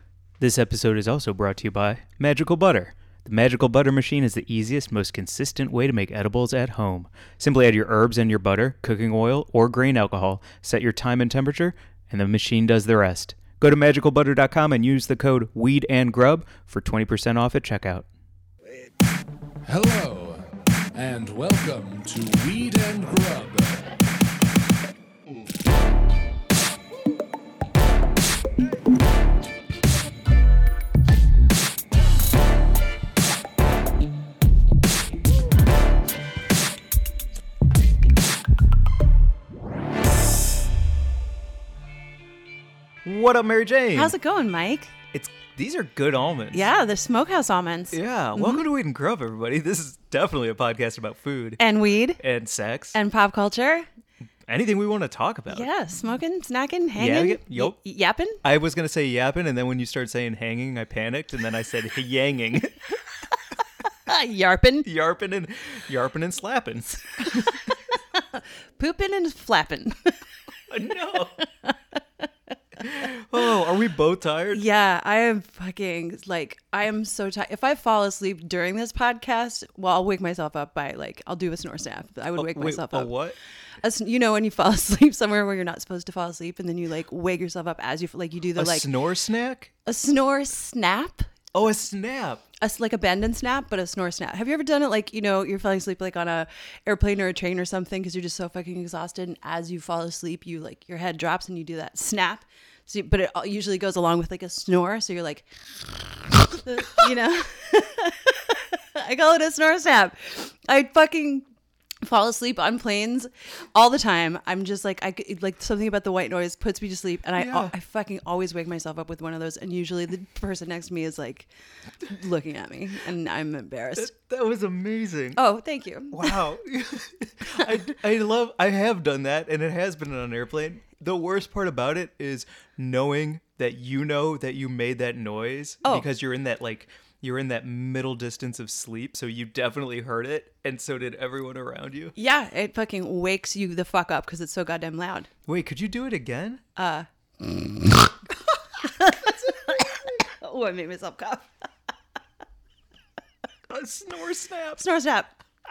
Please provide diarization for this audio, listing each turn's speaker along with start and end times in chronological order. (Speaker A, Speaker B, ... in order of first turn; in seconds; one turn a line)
Speaker A: 0.4-18.1
Speaker B: 19.6-23.9
Speaker A: 43.0-44.1
Speaker C: 43.9-44.9
Speaker A: 45.1-46.6
Speaker C: 46.5-48.6
Speaker A: 47.9-51.6
Speaker C: 51.6-52.2
Speaker A: 52.2-53.0
Speaker C: 52.9-53.9
Speaker A: 54.5-55.7
Speaker C: 55.5-58.4
Speaker A: 57.0-57.8
Speaker A: 58.4-62.9
Speaker C: 64.1-64.9
Speaker A: 64.8-67.7
Speaker C: 67.2-70.2
Speaker A: 70.7-71.4
Speaker C: 71.4-72.3
Speaker A: 72.8-74.6
Speaker C: 74.5-83.1
Speaker A: 82.3-83.3
Speaker C: 83.7-88.9
Speaker A: 88.5-89.7
Speaker C: 89.8-91.3
Speaker A: 91.5-92.4
Speaker C: 92.6-111.5
Speaker C: 112.0-121.5
Speaker A: 117.4-117.7
Speaker C: 122.0-124.1
Speaker A: 124.0-125.4
Speaker C: 125.3-126.4
Speaker A: 126.1-142.1
Speaker C: 142.1-145.3
Speaker A: 145.4-146.6
Speaker C: 146.8-151.5
Speaker A: 153.7-154.8
Speaker C: 154.8-155.4